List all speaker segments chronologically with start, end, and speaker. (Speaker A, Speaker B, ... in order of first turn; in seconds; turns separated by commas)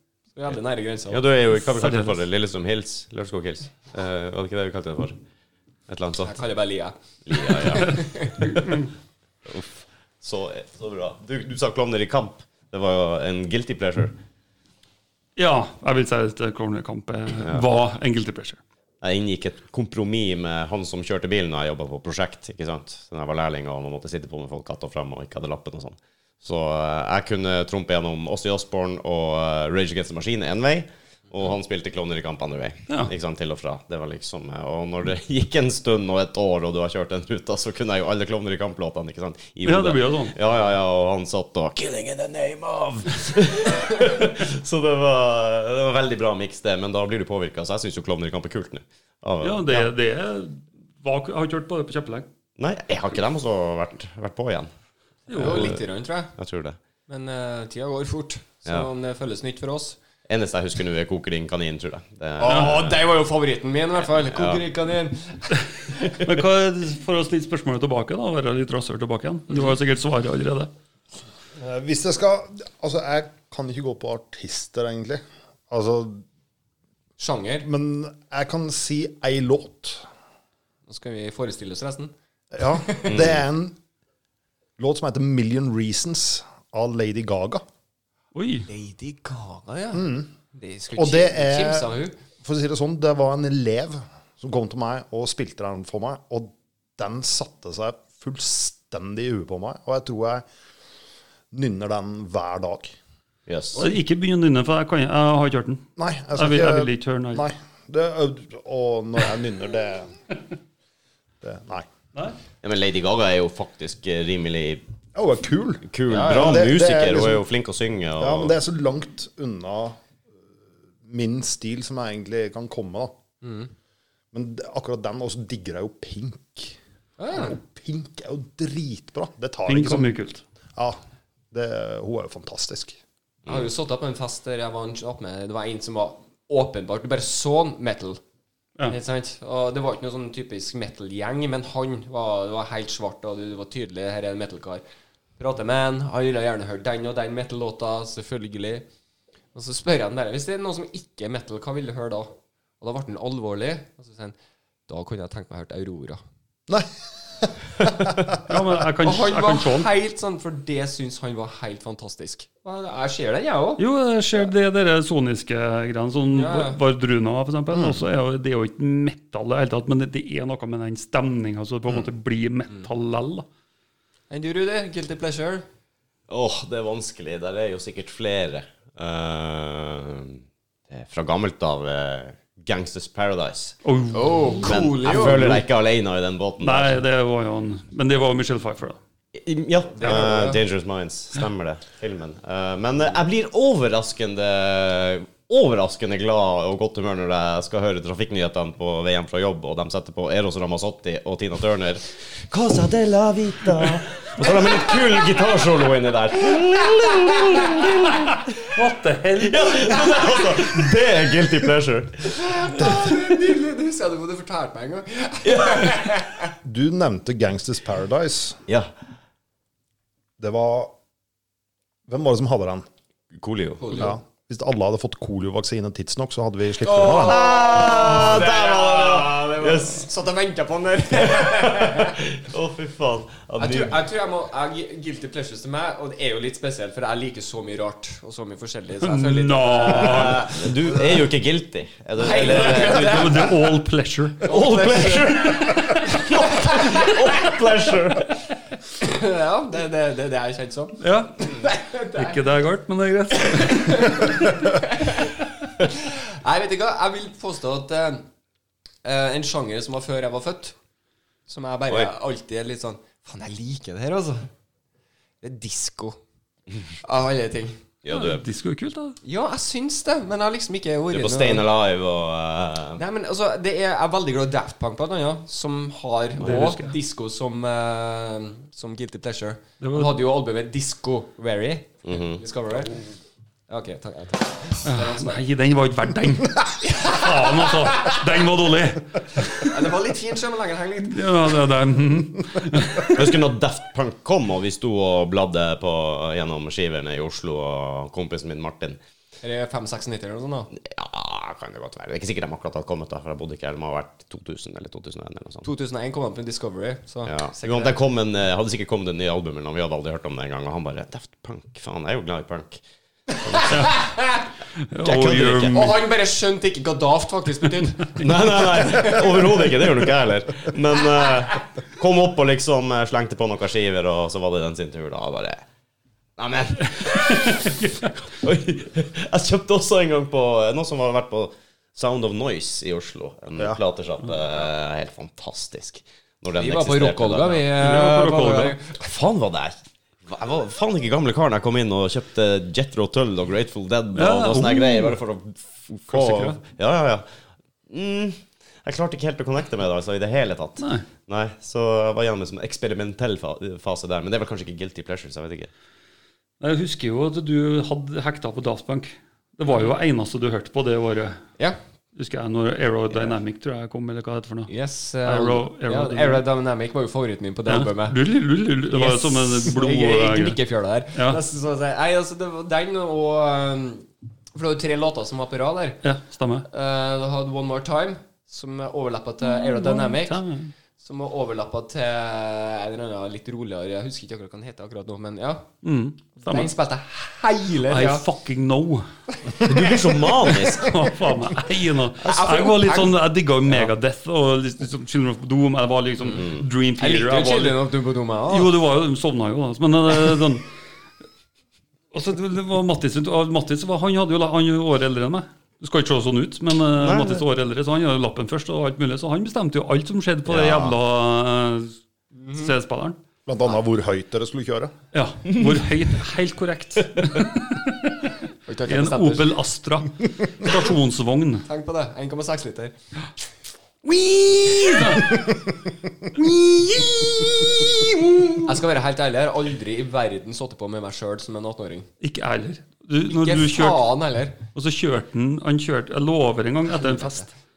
Speaker A: 0.4-1.2, Speaker B: 1.1-5.2, Speaker C: 1.5-2.2, Speaker B: 5.9-6.3, Speaker A: 6.2-8.7, Speaker B: 7.3-8.9, Speaker B: 9.5-14.2, Speaker C: 15.4-18.6, Speaker B: 17.4-17.7, Speaker B: 19.0-49.9, Speaker C: 39.6-40.4, Speaker C: 49.4-52.3, Speaker B: 52.6-54.7, Speaker C: 55.3-55.8, Speaker A: 55.3-56.3, Speaker B: 55.4-55.8, Speaker B: 56.4-56.8, Speaker A: 57.1-60.0, Speaker B: 60.3-63.0, Speaker A: 62.4-65.6, Speaker C: 62.5-62.8, Speaker B: 64.2-64.6, Speaker C: 66.0-70.7, Speaker D: 71.6-76.2, Speaker A: 77.2-77.7, Speaker D: 77.6-80.0, Speaker A: 80.9-82.1, Speaker D: 82.5-83.8, Speaker A: 82.7-83.2, Speaker B: 83.1-83.4, Speaker D: 84.8-87.6, Speaker C: 88.3-88.7, Speaker A: 88.7-92.2, Speaker D: 89.9-90.3, Speaker D: 91.0-100.5, Speaker D: 101.5-103.0, Speaker B: 103.5-103.9, Speaker C: 103.8-105.8, Speaker D: 106.0-110.1, Speaker C: 106.3-107.5, Speaker D: 111.4-111.9, Speaker B: 112.6-114.8, Speaker D: 115.2-117.4, Speaker B: 115.9-118.5, Speaker A: 116.1-116.7, Speaker D: 118.2-120.0, Speaker D: 121.0-123.1, Speaker A: 123.4-123.7, Speaker D: 124.3-126.8, Speaker A: 127.2-127.6, Speaker D: 127.3-130.1, Speaker C: 129.7-130.4, Speaker D: 131.5-133.0, Speaker A: 133.5-138.2, Speaker A: 138.9-144.8, Speaker A: 145.4-148.9, Speaker A: 149.5-154.4, Speaker A: 154.9-156.2, Speaker D: 157.4-158.4, Speaker C: 158.4-159.9, Speaker A: 159.0-163.8, Speaker C: 163.8-173.5, Speaker A: 166.3-166.8, Speaker D: 167.7-168.0, Speaker A: 174.3-175.7, Speaker B: 176.3-183.8, Speaker C: 183.8-185.6, Speaker A: 184.1-185.6, Speaker B: 184.6-187.0, Speaker C: 186.6-189.0, Speaker B: 189.3-208.6, Speaker A: 190.0-190.6, Speaker C: 204.4-204.7, Speaker A: 207.0-207.8, Speaker C: 208.3-210.5, Speaker B: 209.4-212.4, Speaker A: 212.3-216.5, Speaker B: 215.4-216.1, Speaker D: 216.6-218.6, Speaker D: 220.4-220.9, Speaker D: 222.1-222.8, Speaker B: 223.3-224.1, Speaker A: 223.8-224.2, Speaker D: 223.9-227.4, Speaker A: 226.8-232.2, Speaker B: 227.2-230.1, Speaker B: 231.2-234.0, Speaker A: 233.6-241.2, Speaker C: 239.0-240.5, Speaker B: 240.0-243.5, Speaker A: 242.2-243.6, Speaker C: 242.4-245.0, Speaker A: 244.4-247.2, Speaker B: 244.4-248.3, Speaker A: 249.0-252.4, Speaker C: 251.0-251.5, Speaker C: 252.1-254.7, Speaker A: 253.4-255.3, Speaker A: 255.8-258.3, Speaker A: 259.0-260.8, Speaker A: 261.5-264.5, Speaker A: 265.4-266.2, Speaker A: 267.0-267.8, Speaker B: 268.0-268.4, Speaker C: 268.1-269.2, Speaker A: 269.2-271.7, Speaker B: 271.1-273.0, Speaker A: 273.0-283.0, Speaker C: 276.4-277.0, Speaker C: 279.8-280.2, Speaker B: 282.1-282.4, Speaker A: 283.7-285.4, Speaker C: 284.8-289.7, Speaker A: 286.8-288.2, Speaker A: 289.6-291.2, Speaker C: 291.0-293.4, Speaker B: 293.0-299.0, Speaker A: 299.4-300.7, Speaker B: 300.8-305.7, Speaker A: 305.6-308.0, Speaker B: 307.3-312.8, Speaker B: 313.4-313.7, Speaker A: 313.4-314.5, Speaker C: 313.7-314.0, Speaker C: 314.9-316.0, Speaker B: 315.0-316.0, Speaker A: 315.7-319.8, Speaker B: 318.2-325.6, Speaker B: 326.4-337.9, Speaker C: 327.1-328.1, Speaker A: 336.6-338.9, Speaker C: 337.8-338.8, Speaker B: 338.9-347.3, Speaker C: 344.1-345.2, Speaker C: 346.1-346.5, Speaker B: 347.9-355.7, Speaker C: 350.8-351.1, Speaker C: 356.6-361.4, Speaker C: 362.1-364.7, Speaker A: 364.7-368.2, Speaker C: 365.2-366.4, Speaker C: 367.7-370.6, Speaker A: 368.9-376.0, Speaker C: 371.1-371.4, Speaker C: 376.0-376.7, Speaker A: 376.7-380.4, Speaker C: 379.5-380.7, Speaker A: 381.0-385.7, Speaker C: 385.8-386.7, Speaker A: 386.4-388.2, Speaker C: 387.9-389.1, Speaker B: 389.6-391.0, Speaker C: 390.6-397.8, Speaker A: 392.2-393.2, Speaker A: 396.2-398.7, Speaker C: 398.5-400.6, Speaker C: 402.1-411.9, Speaker B: 407.0-407.4, Speaker B: 410.5-410.9, Speaker A: 412.4-412.7, Speaker C: 412.5-413.2, Speaker D: 413.5-414.9, Speaker C: 415.1-418.3, Speaker B: 415.5-415.8, Speaker B: 417.2-417.4, Speaker A: 418.7-419.5, Speaker C: 418.9-421.7, Speaker A: 421.6-422.9, Speaker C: 424.6-425.5, Speaker C: 426.3-428.7, Speaker A: 428.6-432.1, Speaker C: 432.2-434.0, Speaker A: 433.3-434.6, Speaker C: 434.7-437.5